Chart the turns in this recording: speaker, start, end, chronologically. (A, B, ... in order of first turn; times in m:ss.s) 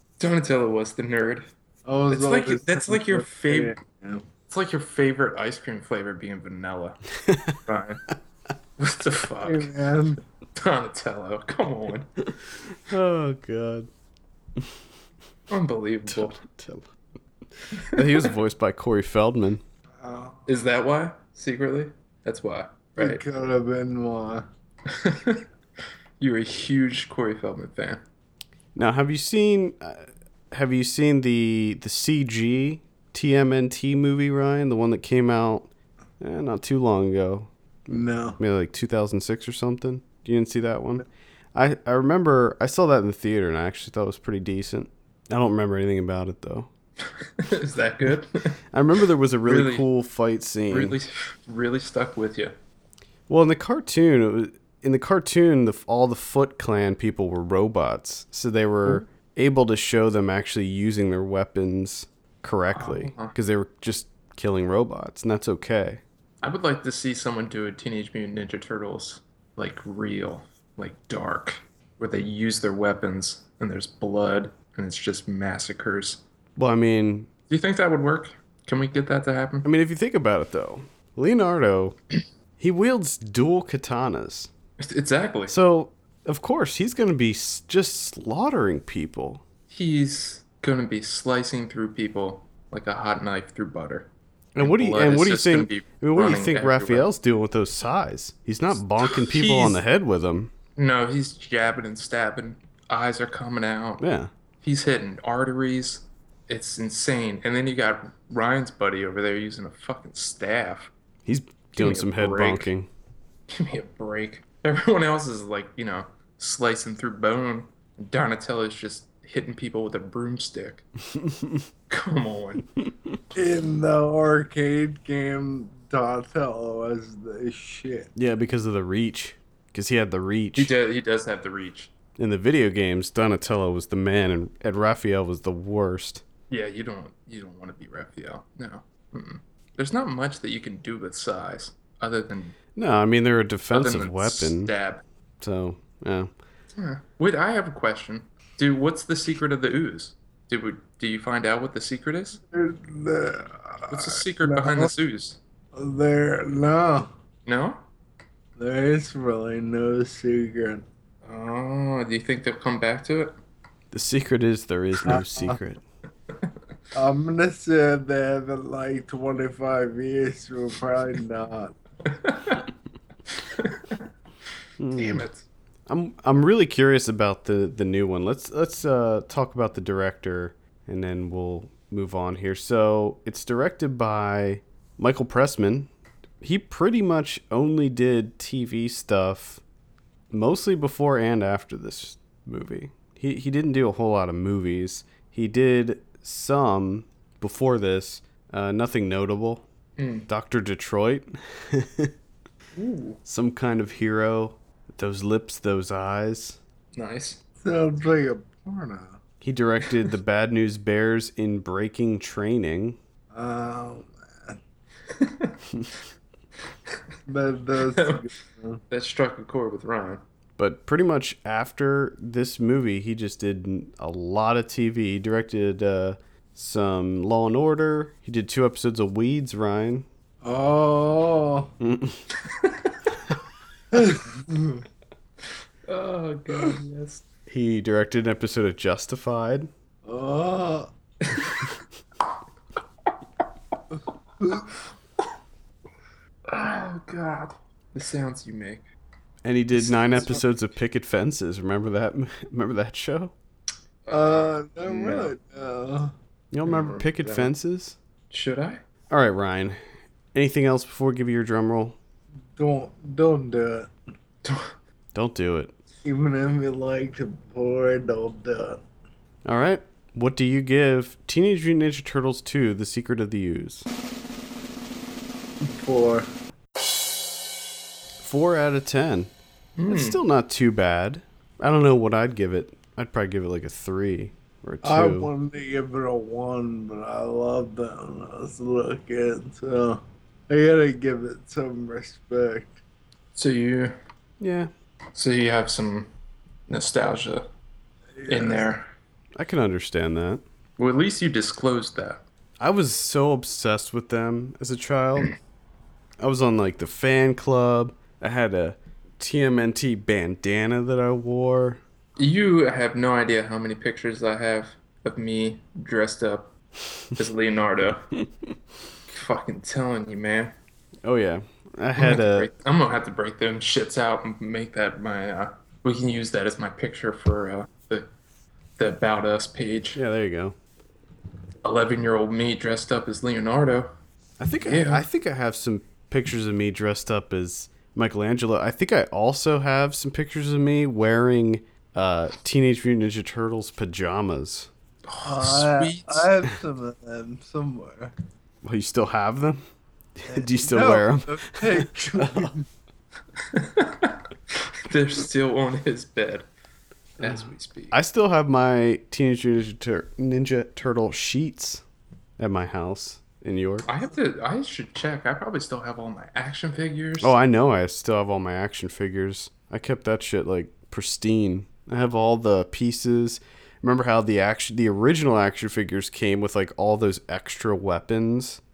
0:00.2-0:01.5 A
0:01.8-0:04.2 B
0:02.1-0:03.8 A
0:04.5-0:07.0 A
0:07.3-0:07.5 C
0:07.5-0:08.0 A
0:08.8-0:09.7 A
0:09.4-0:10.2 B
0:10.6-0:12.1 A
0:12.8-0:13.9 C
0:15.5-0:16.4 A
0:16.1-0:16.9 C
0:17.7-0:18.3 A
0:17.8-0:19.6 C
0:20.0-0:20.5 B
0:20.5-0:23.2 A
0:23.0-0:24.4 B
0:24.9-0:25.4 A
0:26.2-0:28.0 A
0:28.7-0:35.7 C
0:36.2-0:46.7 C
0:37.9-0:38.4 B
0:47.2-0:48.6 A
0:48.7-0:51.0 C
0:49.4-0:49.8 A
0:50.7-0:52.5 A
0:53.3-1:06.0 C
1:02.7-1:03.3 A
1:06.4-1:16.2 A
1:16.6-1:17.3 C
1:17.5-1:19.7 A
1:19.6-1:22.0 C
1:22.6-1:24.5 C
1:24.8-1:25.5 A
1:25.5-1:29.4 C
1:29.7-1:37.1 A
1:34.5-1:40.5 C
1:39.0-1:39.8 A
1:40.8-1:44.0 A
1:44.0-1:44.3 C
1:44.6-1:50.9 A
1:51.2-1:52.9 C
1:51.7-1:52.7 A
1:53.5-2:00.8 A
2:01.1-2:01.6 C
2:01.9-2:02.6 A
2:03.3-2:08.1 B
2:08.2-2:10.7 C
2:10.6-2:11.9 A
2:12.2-2:16.2 C
2:16.5-2:22.6 A
2:22.8-2:24.7 C
2:23.7-2:25.0 A
2:25.4-2:26.3 C
2:26.8-2:32.4 A
2:32.5-2:34.9 B
2:33.9-2:35.4 A
2:35.7-2:37.1 B
2:37.4-2:37.8 A
2:38.6-2:40.8 B
2:41.2-2:43.4 A
2:43.9-2:45.8 C
2:45.0-2:45.6 B
2:46.9-2:51.7 B
2:52.1-2:52.6 A
2:53.4-2:54.0 A
2:54.8-2:55.2 C
2:54.9-2:55.4 A
2:55.9-3:05.9 C
3:06.4-3:09.6 C
3:10.3-3:19.6 C
3:20.0-3:20.3 A
3:20.3-3:22.1 C
3:22.7-3:23.2 A
3:23.2-3:26.6 C
3:26.9-3:27.4 A
3:27.6-3:29.2 B
3:29.4-3:33.0 C
3:33.3-3:34.6 B
3:35.1-3:35.6 A
3:37.3-3:38.8 B
3:37.9-3:38.2 A
3:38.9-3:40.2 A
3:40.6-3:50.0 C
3:50.4-3:51.7 B
3:51.8-3:52.2 C
3:52.4-3:53.0 A
3:53.9-3:54.8 B
3:55.9-3:57.2 A
3:57.5-3:59.7 C
4:00.0-4:00.9 B
4:01.3-4:01.6 A
4:04.4-4:04.7 B
4:06.5-4:08.8 A
4:09.4-4:13.3 C
4:09.7-4:10.4 A
4:14.0-4:15.3 A
4:14.1-4:16.1 B
4:16.5-4:18.0 C
4:16.6-4:17.5 A
4:18.3-4:18.8 A
4:19.1-4:19.8 C
4:20.3-4:22.0 C
4:22.6-4:23.9 B
4:24.4-4:24.7 A
4:25.1-4:25.7 C
4:26.0-4:28.8 B
4:29.4-4:33.9 C
4:35.6-4:36.3 B
4:38.2-4:39.3 C
4:39.8-4:40.2 A
4:39.9-4:45.3 C
4:44.8-4:52.8 B
4:53.3-4:53.9 A
4:54.4-4:54.7 C
4:55.1-4:56.1 A
4:56.7-4:57.5 A
4:58.2-4:58.7 B
4:58.3-4:58.9 A
4:59.4-5:00.4 C
5:00.8-5:02.2 A
5:02.6-5:05.3 C
5:06.2-5:11.8 C
5:12.2-5:16.5 A
5:17.2-5:18.0 A
5:19.1-5:20.5 A
5:21.0-5:22.5 C
5:22.0-5:28.1 A
5:28.8-5:30.0 A
5:29.9-5:30.6 C
5:31.6-5:33.9 A
5:34.4-5:44.7 C
5:34.6-5:35.0 A
5:45.0-5:46.3 A
5:45.2-5:48.1 B
5:48.6-5:49.6 C
5:50.2-5:52.5 C
5:50.3-5:52.7 B
5:53.4-5:56.5 A
5:57.2-5:58.0 A
5:57.2-6:01.8 C
6:02.4-6:03.9 C
6:03.8-6:07.3 A
6:07.2-6:18.6 C